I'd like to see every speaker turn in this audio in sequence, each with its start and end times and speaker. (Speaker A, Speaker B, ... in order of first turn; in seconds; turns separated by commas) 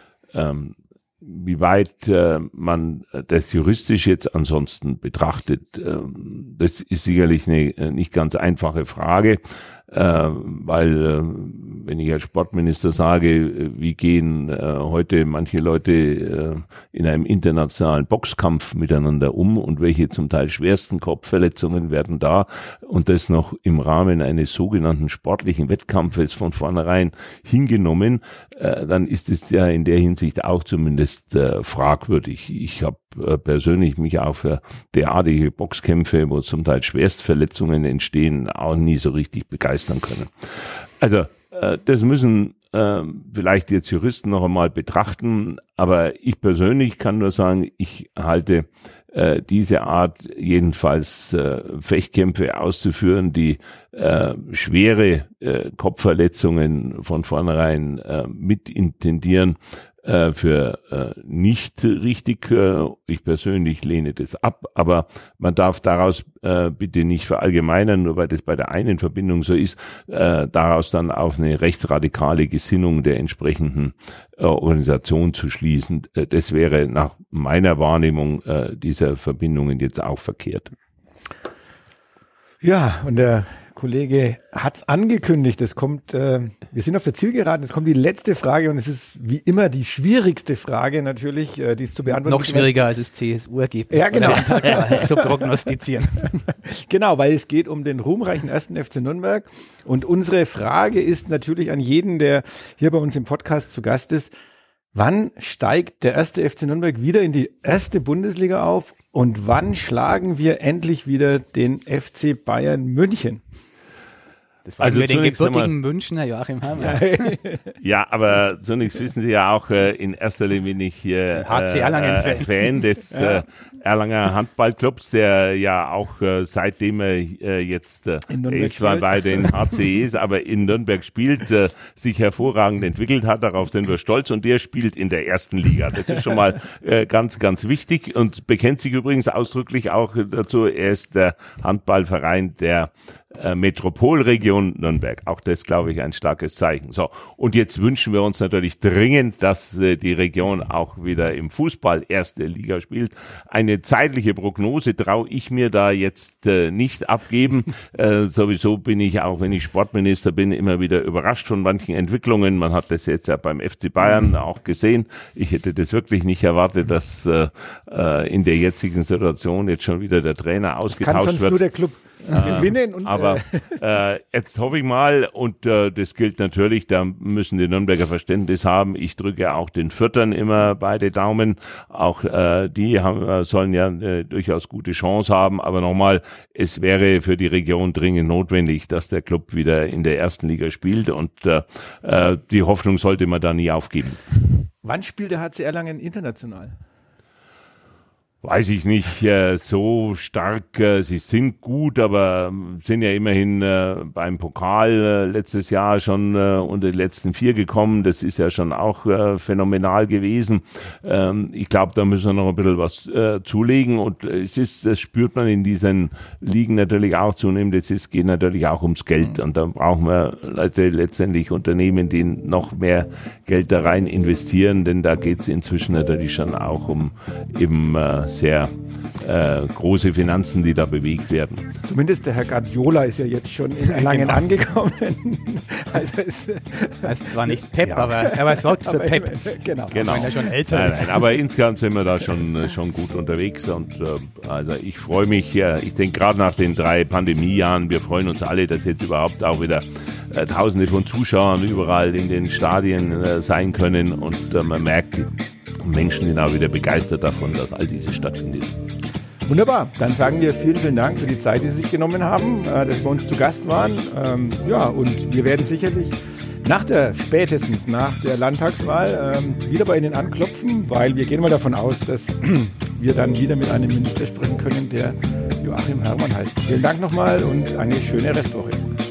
Speaker A: 0.3-80.7, Speaker B: 82.6-92.8, Speaker C: 92.1-96.4, Speaker B: 93.9-95.5, Speaker B: 96.5-104.3, Speaker B: 104.9-113.4, Speaker C: 114.7-117.4, Speaker A: 114.8-115.7, Speaker B: 116.9-117.6, Speaker A: 117.8-171.6, Speaker C: 121.4-122.8, Speaker B: 123.1-123.5, Speaker B: 128.3-129.5, Speaker B: 170.9-173.8, Speaker A: 172.2-194.2, Speaker B: 194.8-196.8, Speaker A: 198.4-231.7, Speaker B: 231.8-240.6, Speaker C: 237.0-241.2, Speaker A: 239.9-258.8, Speaker B: 259.5-278.9